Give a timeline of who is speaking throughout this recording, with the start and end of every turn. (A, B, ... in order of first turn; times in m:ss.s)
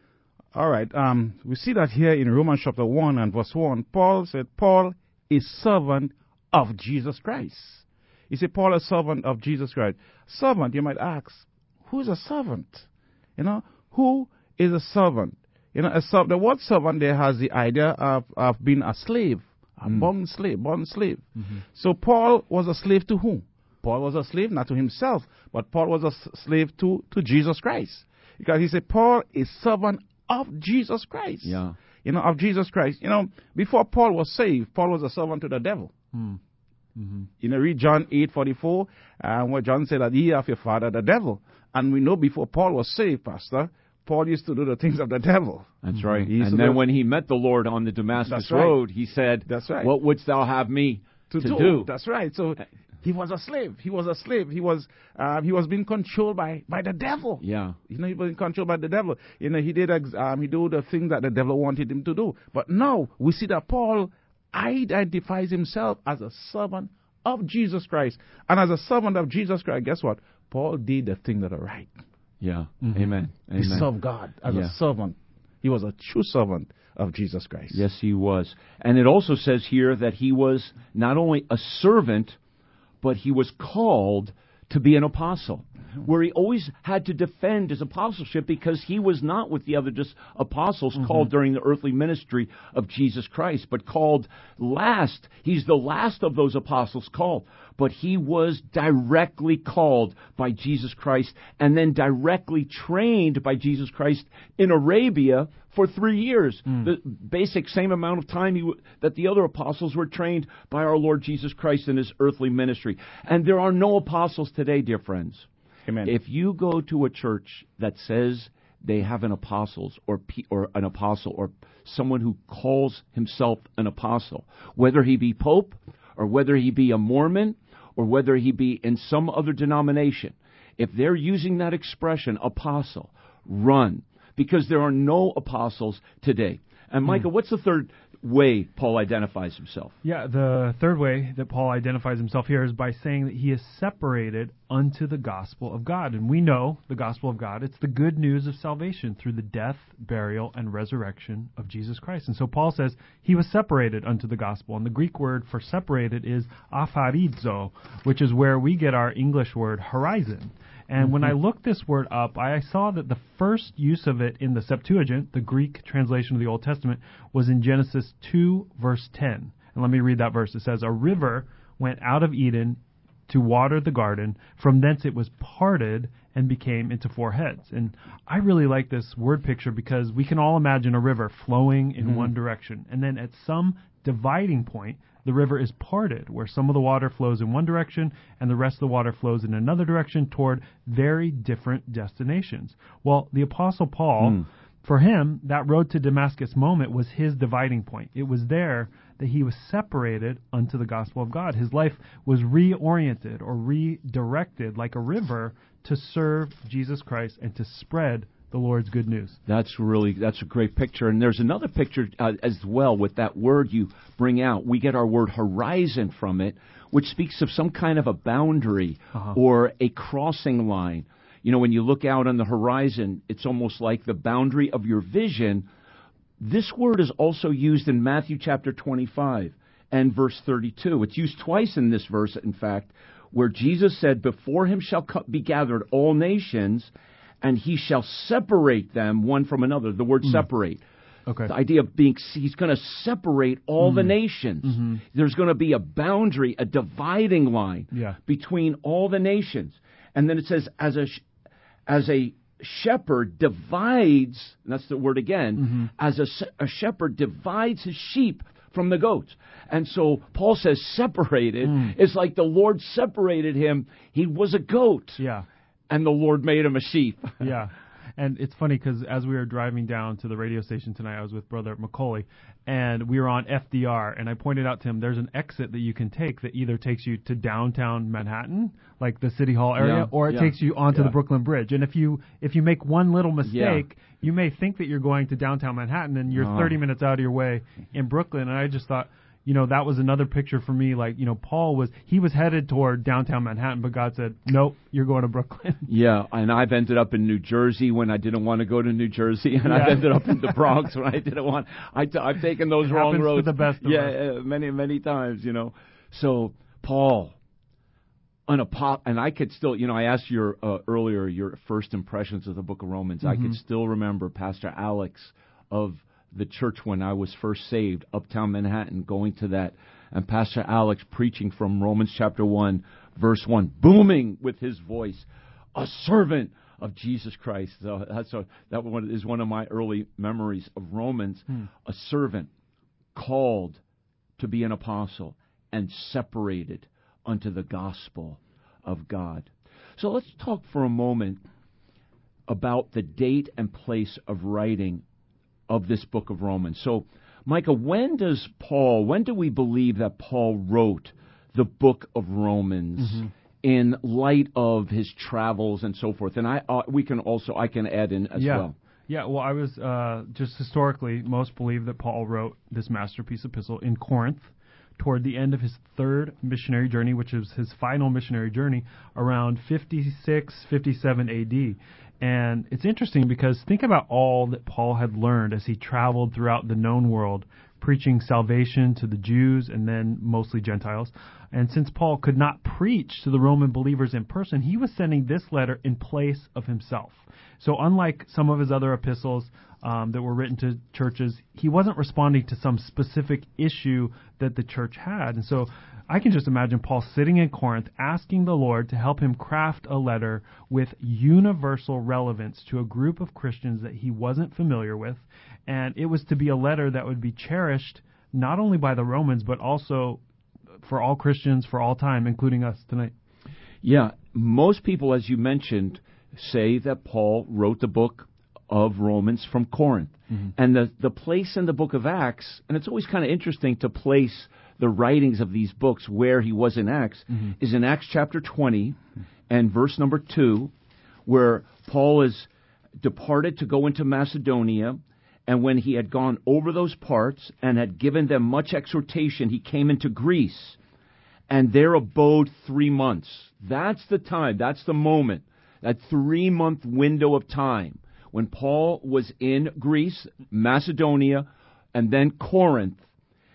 0:00.5-0:35.9 A
0:31.4-0:31.8 B
0:36.1-0:36.4 C
0:37.0-0:37.3 C
0:37.4-0:46.8 A
0:45.8-0:51.9 B
0:46.0-0:46.2 C
0:48.2-0:48.8 A
0:49.5-0:49.9 A
0:51.3-1:11.9 A
0:57.4-0:57.8 B
1:12.4-1:13.9 B
1:12.8-1:13.1 C
1:13.6-1:17.8 A
1:14.5-1:14.7 B
1:17.7-1:22.4 B
1:23.0-1:55.5 B
1:55.9-1:56.1 A
1:56.0-2:20.0 B
2:20.0-3:29.4 C
3:14.2-3:14.4 B
3:29.5-3:45.6 B
3:46.4-3:56.9 B
3:57.4-4:00.8 B
4:01.3-4:01.5 C
4:01.5-4:11.2 B
4:03.8-4:05.0 C
4:07.9-4:08.2 C
4:11.9-4:25.2 B
4:15.6-4:15.9 C
4:21.6-4:22.0 C
4:25.2-4:25.5 C
4:25.9-4:27.5 B
4:27.4-4:55.9 C
4:39.8-4:41.1 B
4:43.4-4:43.8 B
4:46.3-4:46.8 B
4:55.9-5:07.4 B
4:59.6-5:00.5 C
5:02.8-5:04.2 C
5:08.5-5:32.5 B
5:13.2-5:13.6 C
5:33.1-5:33.8 B
5:34.4-5:41.4 B
5:42.5-5:45.0 B
5:45.7-5:58.7 B
5:53.0-5:53.3 C
5:58.4-6:50.2 C
6:50.8-6:53.1 C
6:53.8-7:09.0 B
7:09.5-7:10.7 B
7:11.2-7:20.8 B
7:21.5-7:33.0 B